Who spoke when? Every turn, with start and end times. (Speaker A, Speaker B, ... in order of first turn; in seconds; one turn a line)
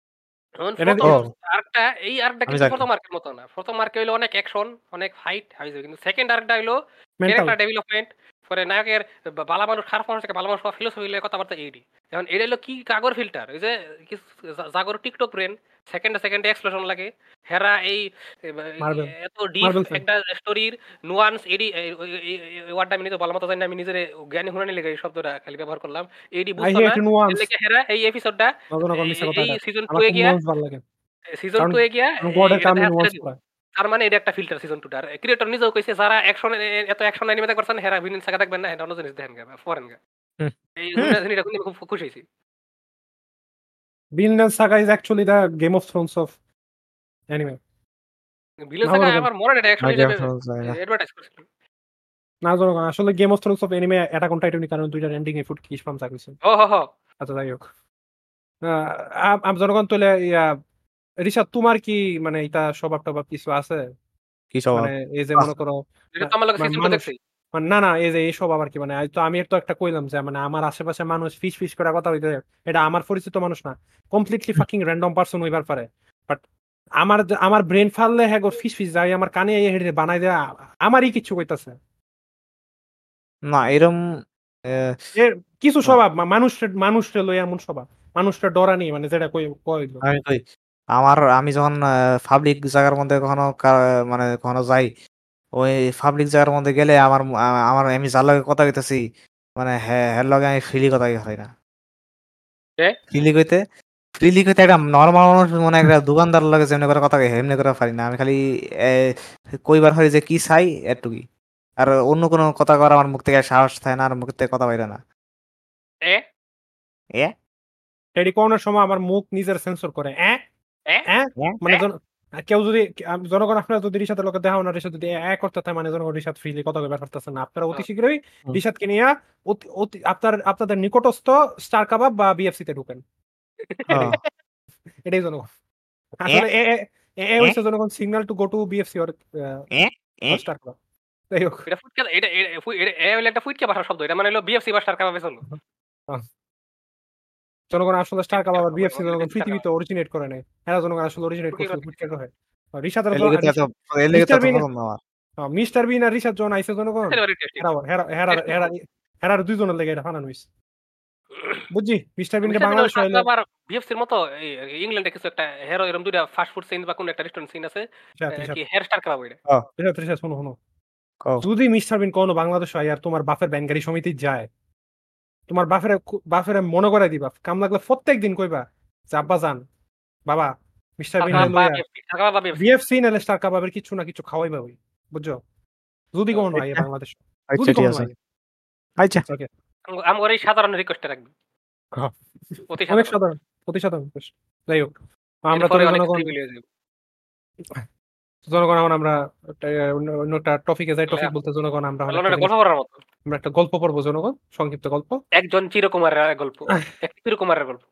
Speaker A: 0.6-30.4
Speaker B: 0.8-1.2
Speaker C: 1.0-1.3
Speaker C: 2.5-2.9
Speaker B: 7.2-7.6
Speaker B: 18.8-20.0
Speaker B: 26.6-27.5
Speaker B: 28.7-30.8
Speaker A: 31.3-33.2
Speaker B: 31.6-33.4
Speaker A: 33.8-40.0
Speaker C: 40.4-41.2
Speaker A: 40.8-42.2
Speaker B: 44.2-46.4
Speaker B: 47.3-47.6
Speaker A: 48.7-51.5
Speaker B: 48.8-49.3
Speaker C: 49.8-50.8
Speaker B: 52.5-56.4
Speaker A: 56.5-56.9
Speaker B: 57.2-57.6
Speaker B: 58.7-60.6
Speaker B: 61.2-63.8
Speaker C: 64.5-65.5
Speaker B: 64.7-76.4
Speaker A: 66.1-67.2
Speaker B: 77.0-81.8
Speaker C: 83.5-84.0
Speaker C: 84.7-85.0
Speaker B: 85.2-90.0
Speaker C: 90.0-90.4
Speaker C: 91.0-94.9
Speaker C: 95.6-99.0
Speaker C: 99.6-101.5
Speaker C: 103.1-103.6
Speaker C: 104.2-111.2
Speaker C: 111.8-115.0
Speaker B: 118.2-120.4
Speaker B: 121.1-133.0
Speaker A: 133.7-134.2
Speaker C: 133.9-134.2
Speaker B: 133.9-134.2
Speaker B: 135.1-135.5
Speaker B: 136.2-139.7
Speaker C: 139.7-140.4
Speaker B: 140.3-140.8
Speaker B: 141.3-141.7
Speaker A: 141.7-145.4
Speaker B: 147.7-154.7
Speaker A: 148.3-149.6
Speaker A: 151.5-152.1
Speaker C: 153.1-155.0
Speaker B: 155.4-160.5
Speaker A: 157.1-157.7
Speaker A: 158.3-158.7
Speaker A: 161.3-161.7
Speaker B: 161.7-163.3
Speaker A: 162.5-169.4
Speaker B: 168.2-168.6
Speaker B: 169.8-170.6
Speaker B: 171.4-174.5
Speaker B: 175.5-179.6
Speaker B: 180.3-181.8
Speaker A: 181.2-182.7
Speaker B: 182.6-185.4
Speaker B: 186.1-188.1
Speaker C: 186.5-186.8
Speaker C: 187.5-188.1
Speaker C: 189.0-189.3
Speaker A: 189.9-191.3
Speaker B: 191.9-196.3
Speaker A: 192.7-193.2
Speaker A: 195.5-196.6
Speaker B: 198.5-202.5
Speaker A: 202.1-203.0
Speaker B: 203.3-205.2
Speaker A: 205.4-207.8